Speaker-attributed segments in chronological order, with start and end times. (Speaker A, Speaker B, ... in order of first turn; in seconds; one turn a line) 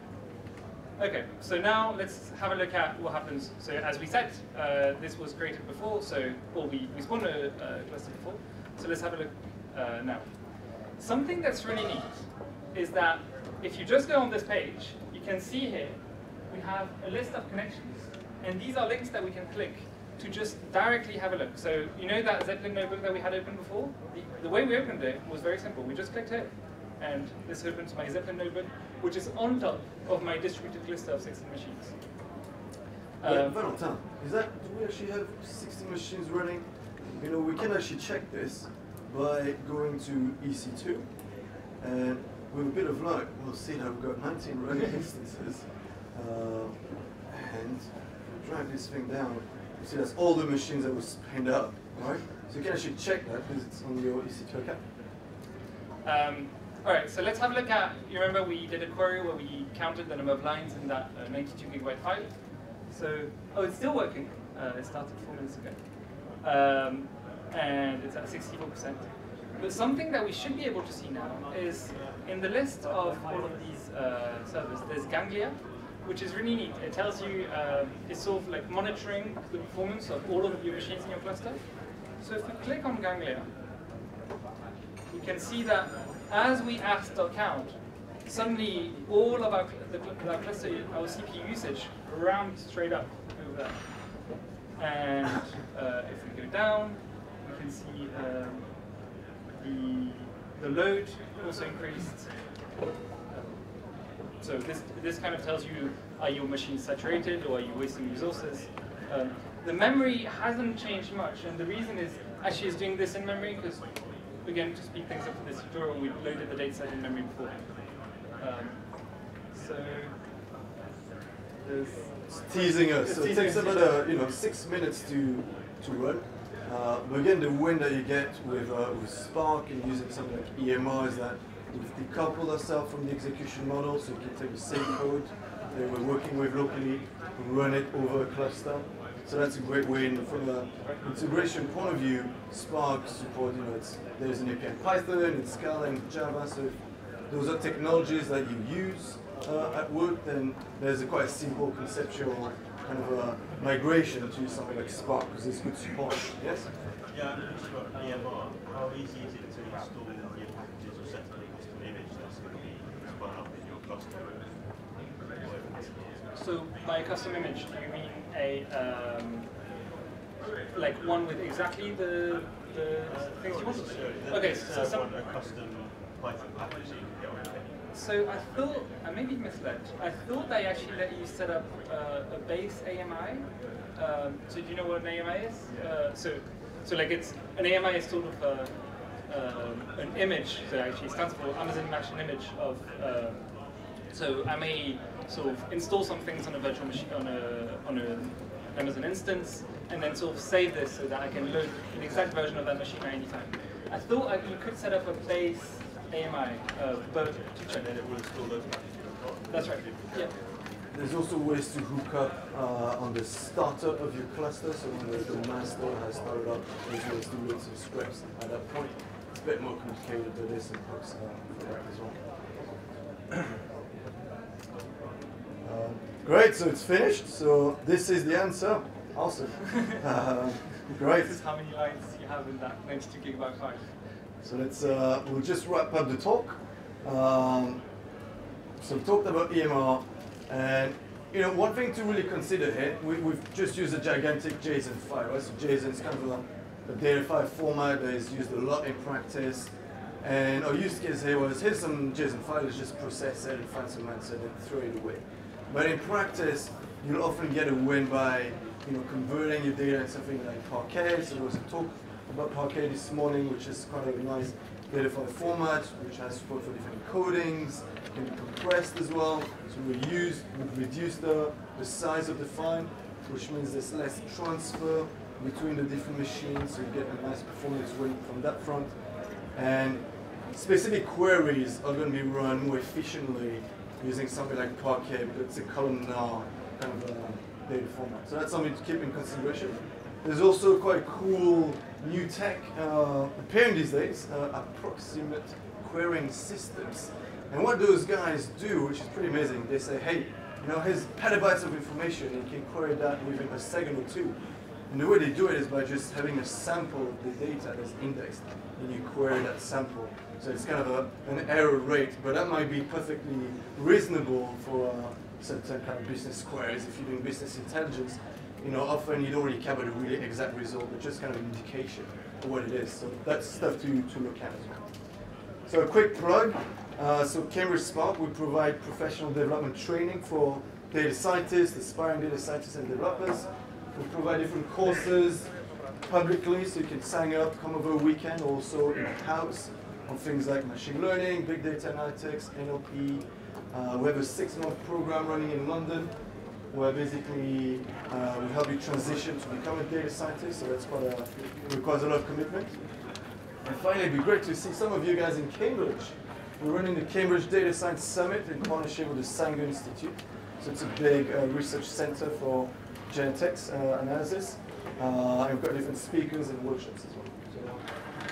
Speaker A: 1.0-31.9
Speaker A: 33.2-33.6
Speaker B: 33.2-41.2
Speaker B: 41.8-54.8
Speaker A: 56.0-83.5
Speaker C: 71.5-72.2
Speaker C: 73.2-73.6
Speaker A: 85.1-102.6
Speaker A: 103.3-120.2
Speaker A: 121.6-124.0
Speaker B: 122.3-156.7
Speaker C: 157.1-166.3
Speaker A: 166.3-169.5
Speaker A: 170.7-175.1
Speaker C: 173.1-177.8
Speaker A: 177.9-207.9
Speaker C: 185.7-185.9
Speaker C: 207.6-210.9
Speaker A: 209.5-210.3
Speaker B: 210.9-222.3
Speaker B: 225.6-231.4
Speaker A: 231.0-234.0
Speaker B: 234.4-237.8
Speaker B: 238.8-324.9
Speaker B: 325.7-352.8
Speaker B: 353.6-367.9